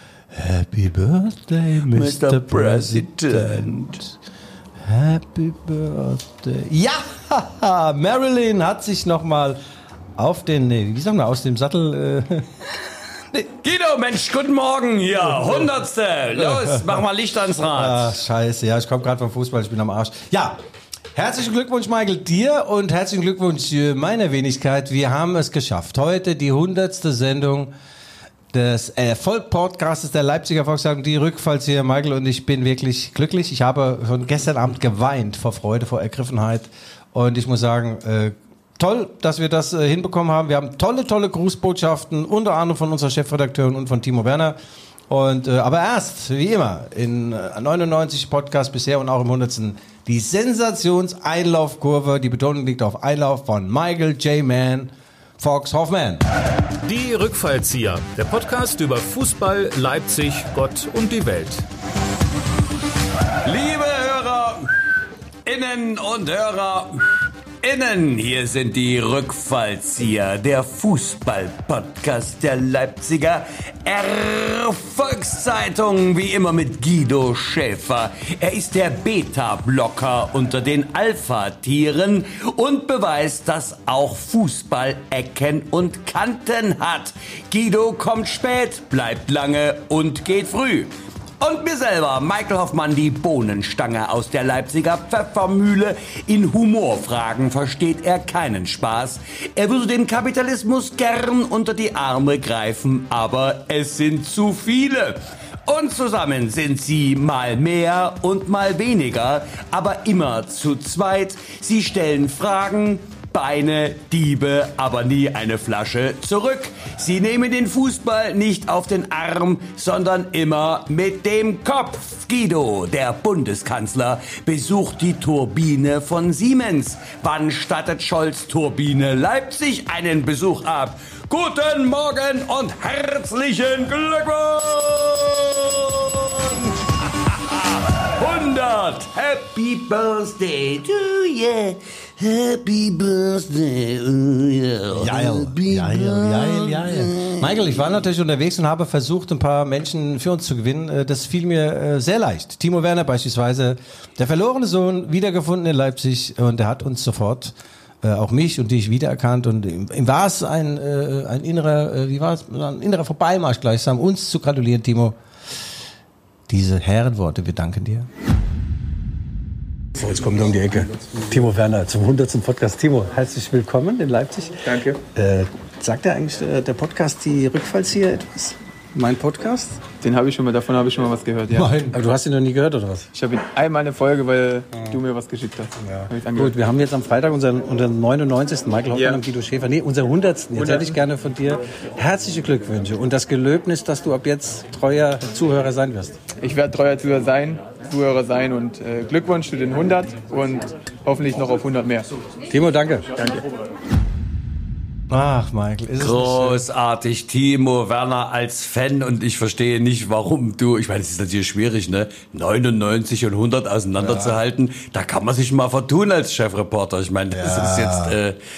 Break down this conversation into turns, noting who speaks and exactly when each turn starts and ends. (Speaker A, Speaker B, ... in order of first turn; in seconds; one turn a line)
Speaker A: 0.3-4.2
Speaker B: 1.9-4.0
Speaker A: 4.8-9.6
Speaker A: 10.2-12.5
Speaker B: 13.6-18.1
Speaker A: 15.2-15.7
Speaker A: 16.3-17.0
Speaker A: 17.7-20.6
Speaker A: 21.1-27.7
Speaker A: 28.5-44.5
Speaker A: 45.1-56.2
Speaker C: 56.8-61.6
Speaker B: 63.4-64.7
Speaker B: 65.4-147.9
Speaker A: 144.9-165.2
Speaker A: 166.5-168.1
Speaker A: 169.9-179.8
Speaker D: 174.6-175.0
Speaker D: 180.0-181.7
Speaker A: 181.5-183.1
Speaker D: 183.1-186.5
Speaker A: 185.8-196.2
Speaker D: 190.6-190.9
Speaker D: 196.4-202.1
Speaker A: 202.5-203.4
Speaker A: 205.1-206.6
Speaker B: 206.0-218.4
Speaker A: 214.0-214.4
Speaker A: 217.3-218.2